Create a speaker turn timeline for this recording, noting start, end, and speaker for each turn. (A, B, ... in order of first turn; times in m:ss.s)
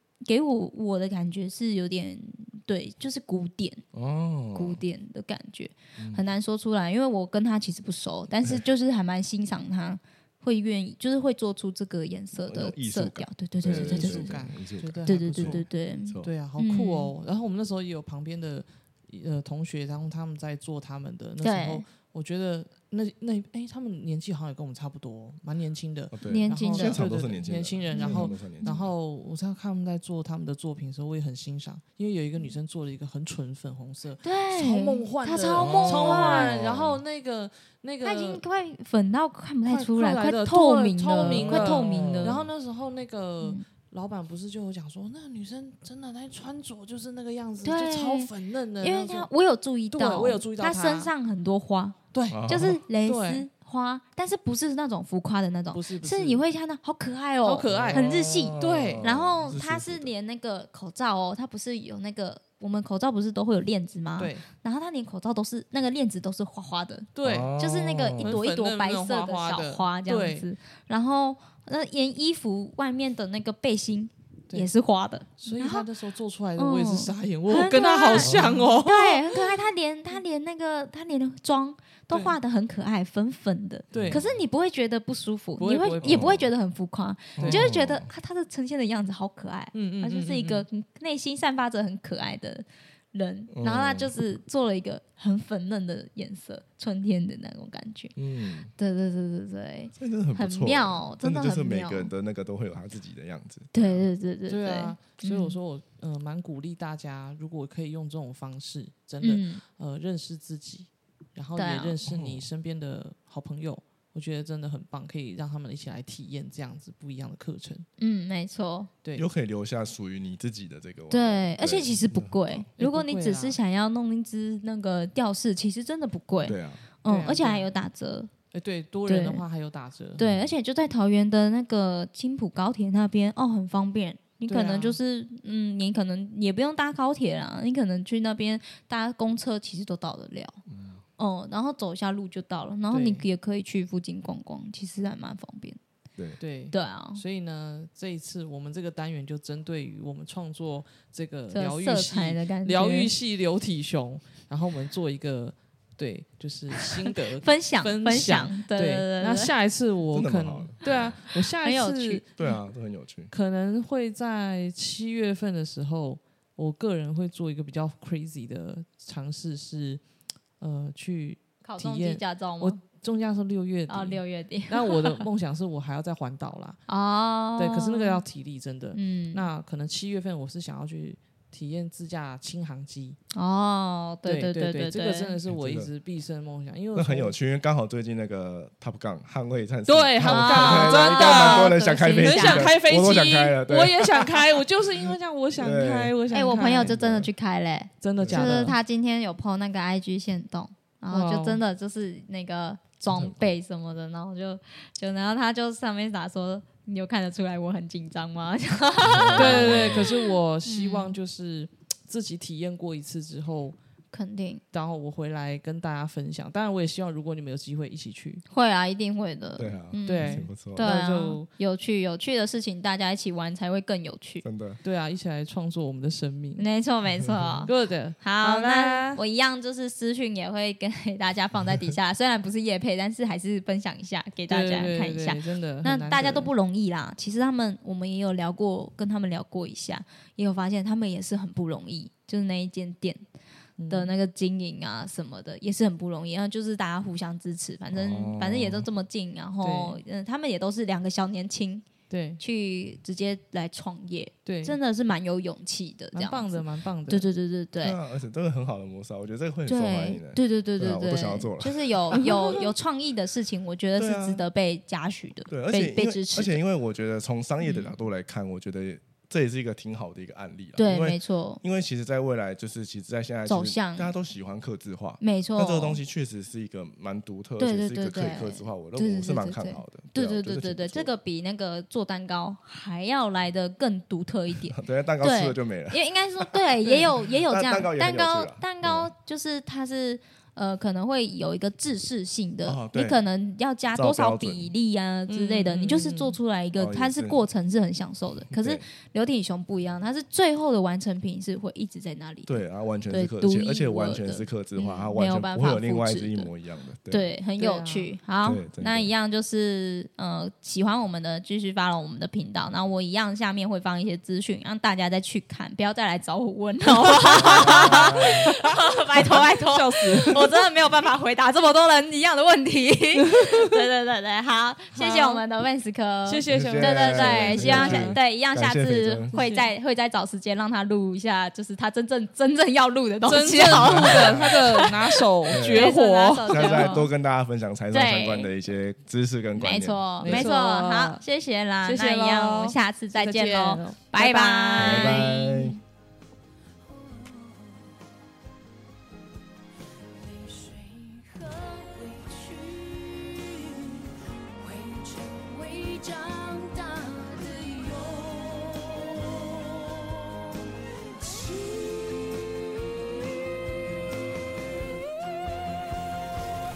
0:00.2-0:03.8 A
0:03.9-0:04.8 B
0:04.5-0:14.4 A
0:06.0-0:06.2 B
0:12.4-0:16.3 B
0:13.6-0:15.7 C
0:15.0-0:17.1 A
0:16.2-0:38.4 C
0:21.4-0:21.8 A
0:26.1-0:28.8 B
0:26.2-0:27.0 A
0:27.9-0:28.9 A
0:34.2-0:36.5 A
0:35.6-0:37.0 B
0:38.0-0:42.4 A
0:39.7-0:49.3 C
0:41.2-0:42.5 B
0:47.6-0:52.0 A
0:49.9-0:51.1 C
0:52.1-0:53.5 C
0:52.3-0:52.8 B
0:52.5-1:15.9 A
0:55.7-0:56.4 C
0:57.4-0:59.0 C
0:57.7-1:00.1 B
1:04.2-1:04.4 C
1:07.1-1:07.5 C
1:07.2-1:08.4 B
1:08.2-1:10.5 C
1:15.4-1:19.5 C
1:16.6-1:38.1 A
1:18.2-1:18.8 B
1:22.1-1:22.4 C
1:23.9-1:24.3 B
1:23.9-1:24.2 C
1:25.6-1:26.4 C
1:26.0-1:26.5 B
1:27.4-1:28.1 B
1:27.4-1:27.7 C
1:29.7-1:30.6 C
1:33.5-1:34.1 B
1:38.2-1:38.7 B
1:38.8-1:42.1 A
1:39.9-1:44.0 B
1:43.7-1:45.6 A
1:44.5-1:57.8 C
1:49.2-1:49.6 A
1:51.5-1:52.0 A
1:52.0-1:52.5 B
1:58.0-1:58.9 A
1:59.2-2:02.7 B
2:01.1-2:08.3 A
2:02.8-2:03.6 C
2:06.4-2:06.8 B
2:07.0-2:07.7 C
2:08.5-2:10.2 C
2:09.1-2:09.4 A
2:10.2-2:10.6 B
2:10.2-2:20.6 A
2:14.4-2:15.0 C
2:20.7-2:21.0 B
2:21.2-2:25.8 A
2:22.9-2:23.2 C
2:26.4-2:42.4 C
2:26.7-2:27.2 A
2:31.5-2:33.1 A
2:37.0-2:39.5 A
2:40.1-2:41.2 B
2:41.3-2:42.2 A
2:42.4-2:43.3 B
2:43.3-2:50.0 C
2:50.6-2:56.8 C
2:51.6-2:52.8 A
2:53.9-2:55.2 A
2:56.9-2:58.2 A
2:57.6-3:03.2 C
2:58.9-2:59.4 A
3:03.3-3:05.4 A
3:04.2-3:07.4 C
3:05.5-3:05.9 B
3:06.9-3:14.4 B
3:09.9-3:17.0 C
3:10.2-3:12.7 A
3:15.6-3:16.2 B
3:16.3-3:31.2 A
3:16.8-3:17.3 B
3:18.0-3:18.8 C
3:18.2-3:18.7 B
3:21.1-3:21.6 C
3:23.1-3:23.4 B
3:29.0-3:29.9 B
3:29.2-3:33.8 C
3:34.1-3:34.6 A
3:34.7-3:38.4 C
3:38.5-3:44.4 A
3:39.6-3:40.9 B
3:40.0-3:41.5 C
3:44.4-3:44.8 B
3:44.8-3:46.6 C
3:46.6-4:03.2 A
3:47.2-3:47.7 B
3:47.6-3:49.2 C
3:54.5-3:56.5 C
4:03.8-4:04.1 C
4:03.9-4:11.8 A
4:07.9-4:08.9 B
4:09.6-4:10.0 C
4:12.1-4:12.4 C
4:12.4-4:18.0 A
4:14.4-4:14.8 C
4:16.1-4:17.2 C
4:17.8-4:21.9 B
4:19.6-4:26.6 A
4:22.1-4:22.7 C
4:24.0-4:24.4 B
4:25.5-4:41.1 B
4:27.6-4:27.9 A
4:30.8-4:31.6 A
4:33.5-4:34.1 A
4:35.2-4:36.0 A
4:37.6-5:06.5 A
4:44.7-4:46.6 B
4:46.8-4:47.1 C
4:47.5-4:49.1 B
4:52.6-4:53.2 B
4:53.9-4:54.7 B
4:55.3-4:56.4 C
4:56.8-4:57.4 B
4:58.5-4:58.8 B
5:02.5-5:07.3 B
5:07.1-5:37.1 A
5:07.6-5:08.1 C
5:08.4-5:09.1 B
5:17.2-5:20.5 C
5:17.4-5:18.5 B
5:23.3-5:23.7 C
5:24.9-5:25.4 C
5:26.2-5:28.2 C
5:26.5-5:29.3 B
5:29.3-5:29.7 C
5:33.2-5:37.0 C
5:33.7-5:34.7 B
5:35.5-5:40.5 B
5:37.9-5:38.5 A
5:39.6-5:45.8 A
5:40.2-5:41.2 C
5:41.8-5:45.3 C
5:44.8-5:45.8 B
5:46.8-5:47.9 D
5:50.0-6:03.6 D